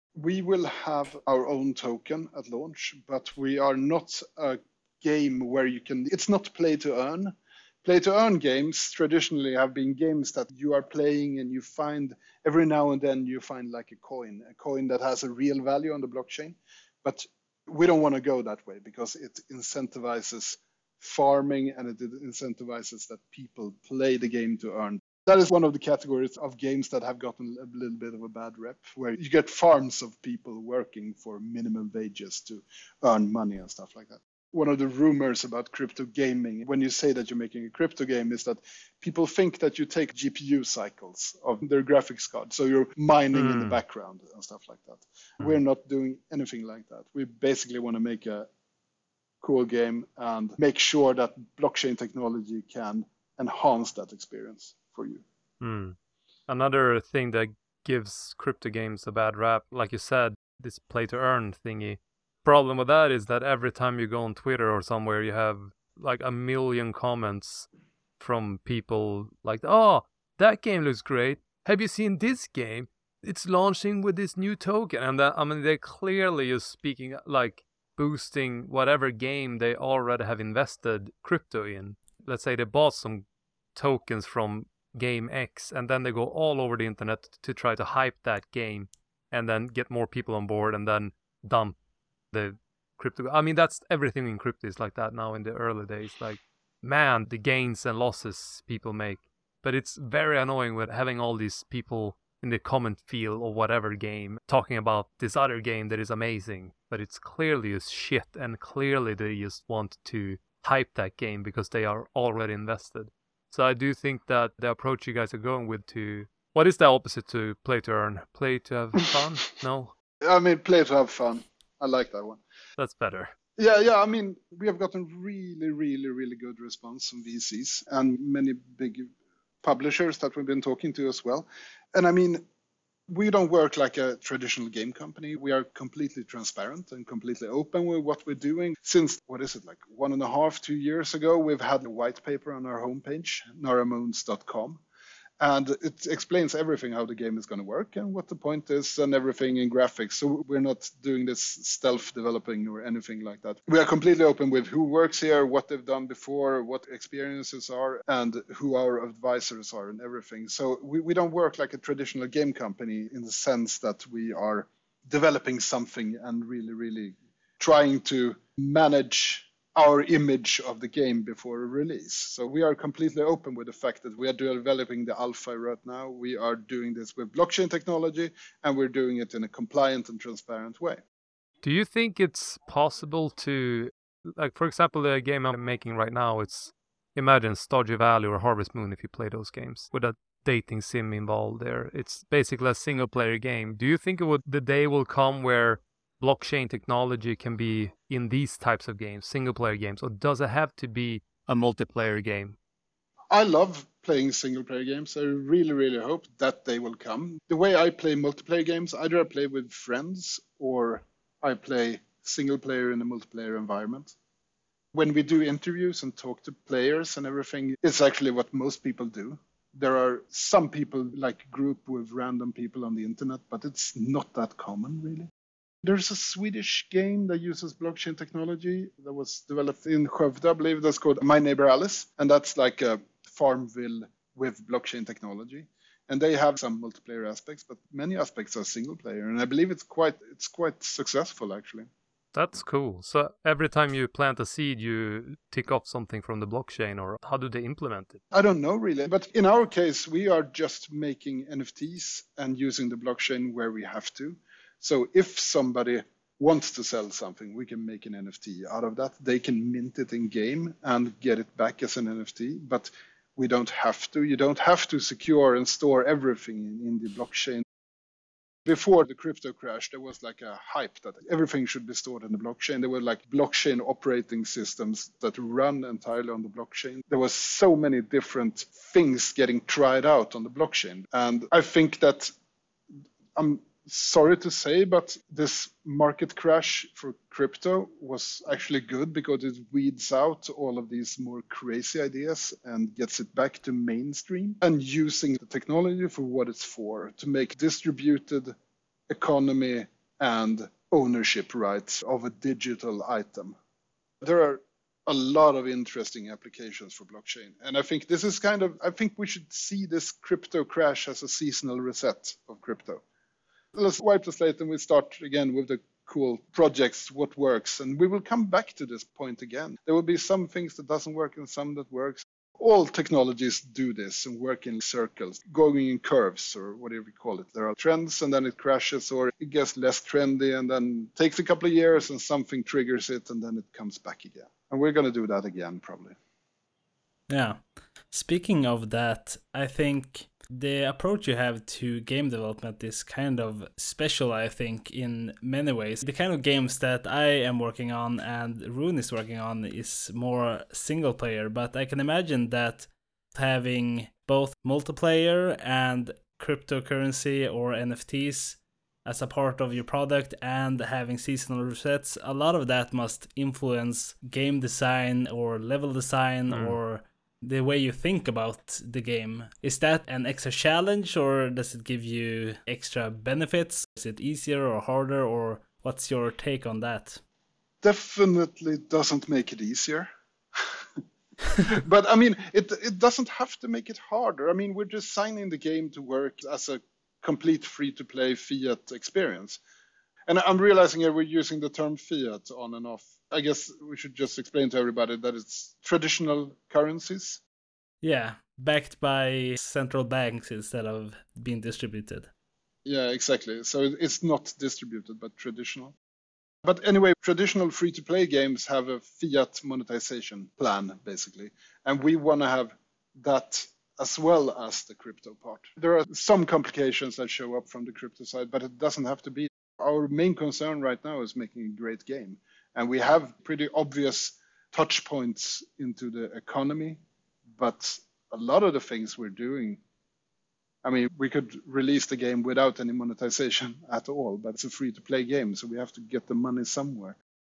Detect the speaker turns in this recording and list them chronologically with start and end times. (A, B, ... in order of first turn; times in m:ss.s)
0:00.2-0:48.5 A
0:43.4-0:43.8 B
0:49.4-0:55.2 A
0:55.6-0:56.0 B
0:56.5-1:07.7 B
1:08.2-1:23.2 B
1:23.8-1:31.8 B
1:32.3-1:59.9 B
2:00.2-2:02.4 A
2:02.8-2:03.3 B
2:03.6-2:09.1 A
2:09.6-2:12.4 A
2:13.1-2:24.8 A
2:25.4-3:01.0 A
3:01.6-3:22.6 B
3:23.3-3:34.2 A
3:34.9-3:45.3 A
3:45.8-4:01.9 A
4:02.3-4:08.2 B
4:08.3-4:27.6 A
4:28.7-4:42.3 A
4:43.4-4:58.6 A
4:59.1-5:03.6 A
5:04.2-5:13.0 A
5:13.7-5:36.2 A
5:37.3-6:17.2 C
6:06.5-6:06.8 B
6:17.8-6:20.7 A
6:21.6-6:29.6 A
6:30.3-6:37.4 A
6:38.0-6:42.3 C
6:42.8-6:46.0 A
6:46.6-7:07.0 A
7:07.5-7:09.8 A
7:10.8-7:17.2 A